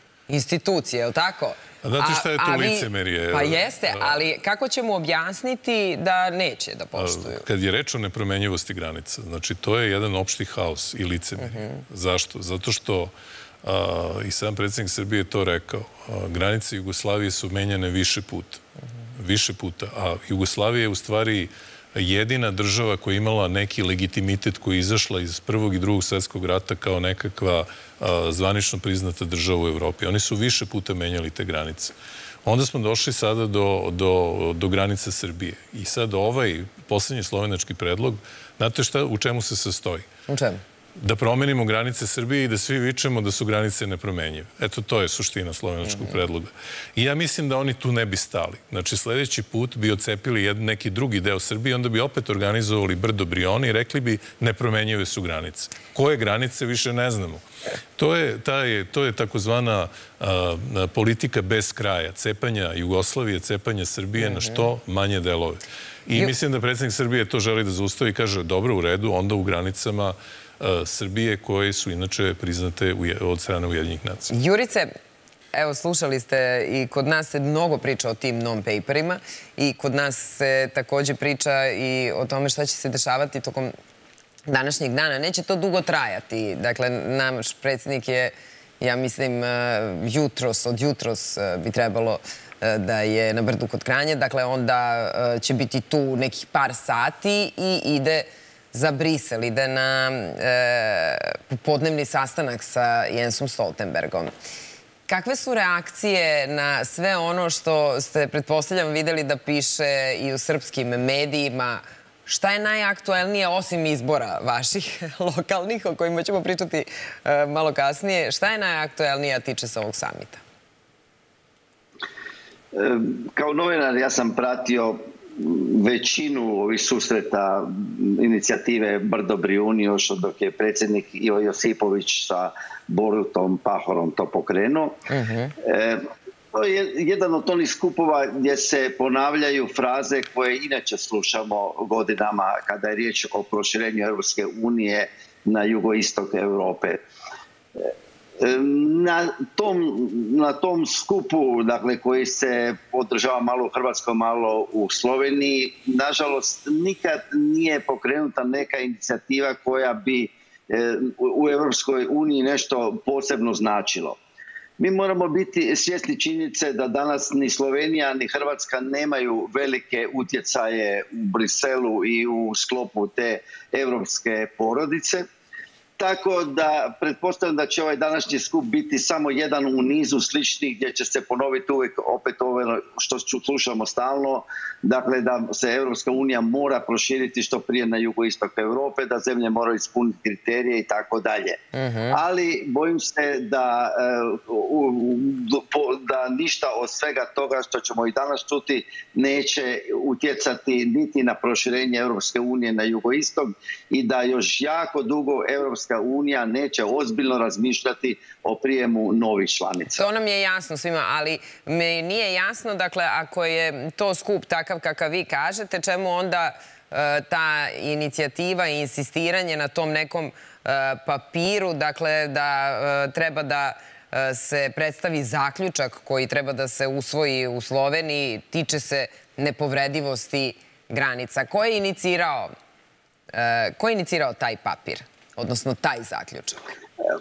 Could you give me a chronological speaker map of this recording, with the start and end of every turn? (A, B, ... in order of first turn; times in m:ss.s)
0:00.3-0:07.4 A
0:01.8-0:04.2 B
0:07.0-0:13.1 B
0:11.4-0:11.8 A
0:13.6-0:18.6 B
0:19.2-0:31.9 B
0:32.4-0:40.1 B
0:40.3-0:40.6 A
0:41.0-0:57.4 B
0:45.8-0:46.2 A
0:58.0-1:14.3 B
1:04.2-1:04.6 A
1:14.3-1:14.9 A
1:15.5-1:23.7 A
1:24.5-1:44.3 A
1:45.1-2:00.4 A
2:02.7-2:15.0 C
2:15.1-2:15.6 A
2:15.6-2:27.0 C
2:27.8-2:44.2 C
2:44.8-2:55.3 C
2:56.0-3:30.0 C
3:11.7-3:12.2 A
3:30.0-3:52.5 A
3:53.3-3:56.6 A